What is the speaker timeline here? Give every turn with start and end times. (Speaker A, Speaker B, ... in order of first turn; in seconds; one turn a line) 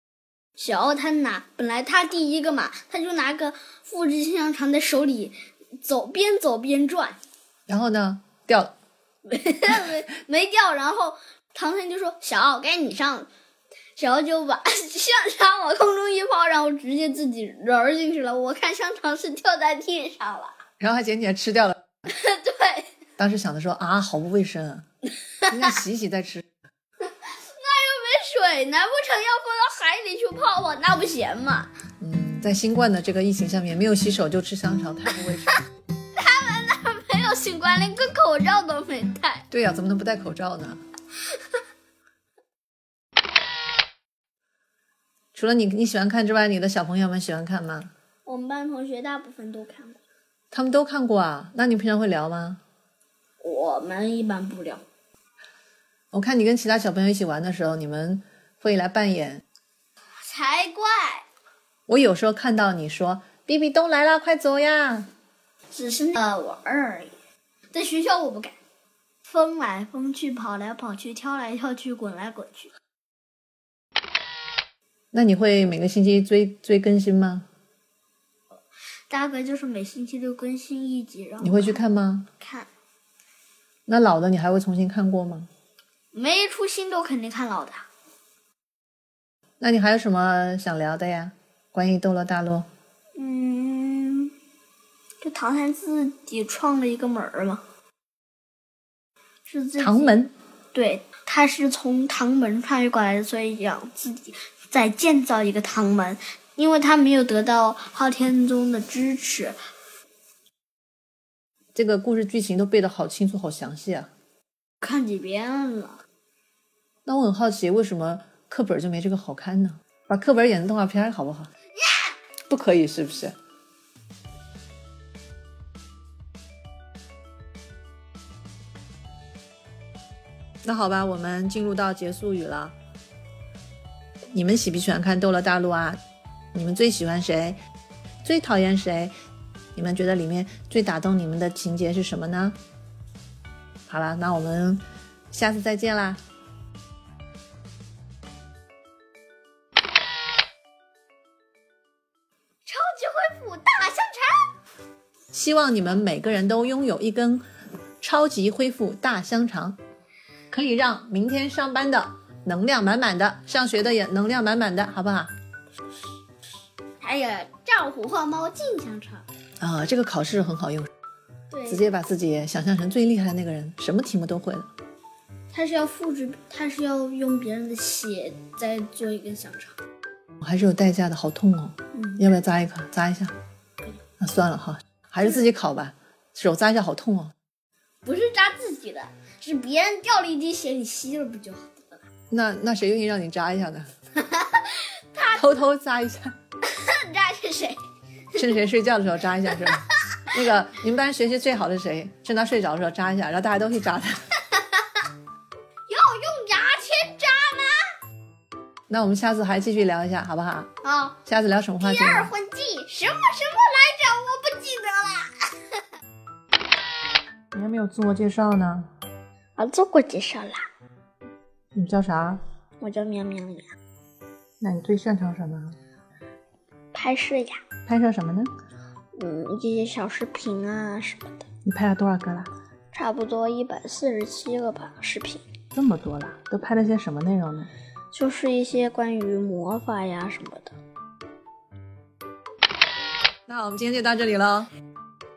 Speaker A: 0.6-7.2
Speaker B: 7.7-8.7
Speaker A: 9.2-13.3
Speaker A: 13.9-20.6
Speaker B: 20.8-21.8
Speaker A: 22.1-22.9
Speaker B: 23.2-24.8
Speaker B: 25.5-26.4
Speaker A: 27.2-31.7
Speaker B: 32.0-35.5
Speaker A: 36.1-39.4
Speaker B: 39.5-40.8
Speaker B: 45.3-47.9
Speaker A: 48.2-50.0
Speaker B: 50.5-52.6
Speaker A: 53.4-54.8
Speaker B: 56.1-59.4
Speaker A: 60.2-61.2
Speaker B: 61.9-65.1
Speaker A: 65.7-67.1
Speaker A: 67.7-68.6
Speaker A: 69.2-72.7
Speaker B: 75.1-77.5
Speaker A: 79.1-81.8
Speaker B: 81.4-82.3
Speaker A: 82.4-82.7
Speaker B: 83.9-85.5
Speaker A: 86.1-87.8
Speaker B: 89.6-92.7
Speaker A: 93.2-94.3
Speaker A: 95.2-97.6
Speaker A: 99.5-100.2
Speaker B: 99.8-100.3
Speaker A: 100.7-109.5
Speaker B: 111.7-114.1
Speaker A: 114.8-116.0
Speaker B: 117.0-121.5
Speaker B: 122.5-123.3
Speaker B: 130.6-132.7
Speaker B: 134.3-136.0
Speaker B: 136.5-137.6
Speaker B: 138.2-139.1
Speaker B: 139.7-142.6
Speaker B: 143.9-146.2
Speaker A: 152.7-154.5
Speaker B: 155.3-157.4
Speaker B: 158.0-159.8
Speaker B: 160.5-165.3
Speaker A: 167.0-169.2
Speaker B: 169.6-170.9
Speaker A: 171.5-171.9
Speaker B: 171.7-174.7
Speaker A: 175.5-179.8
Speaker B: 180.4-183.3
Speaker A: 181.9-182.2
Speaker B: 184.2-187.3
Speaker A: 188.0-192.0
Speaker B: 192.3-193.9
Speaker A: 194.2-195.4
Speaker B: 195.3-196.3
Speaker A: 196.6-197.8
Speaker B: 198.3-204.2
Speaker A: 199.5-199.9
Speaker A: 205.9-207.9
Speaker B: 208.9-210.7
Speaker A: 210.8-211.2
Speaker B: 211.2-212.3
Speaker A: 211.8-215.5
Speaker B: 217.5-218.9
Speaker A: 219.6-220.7
Speaker B: 221.7-222.4
Speaker A: 222.8-223.7
Speaker B: 224.6-225.8
Speaker A: 226.9-227.6
Speaker B: 227.8-228.5
Speaker A: 229.2-231.4
Speaker B: 231.6-232.5
Speaker A: 232.9-235.4
Speaker B: 235.7-237.7
Speaker A: 238.1-240.8
Speaker B: 243.5-244.7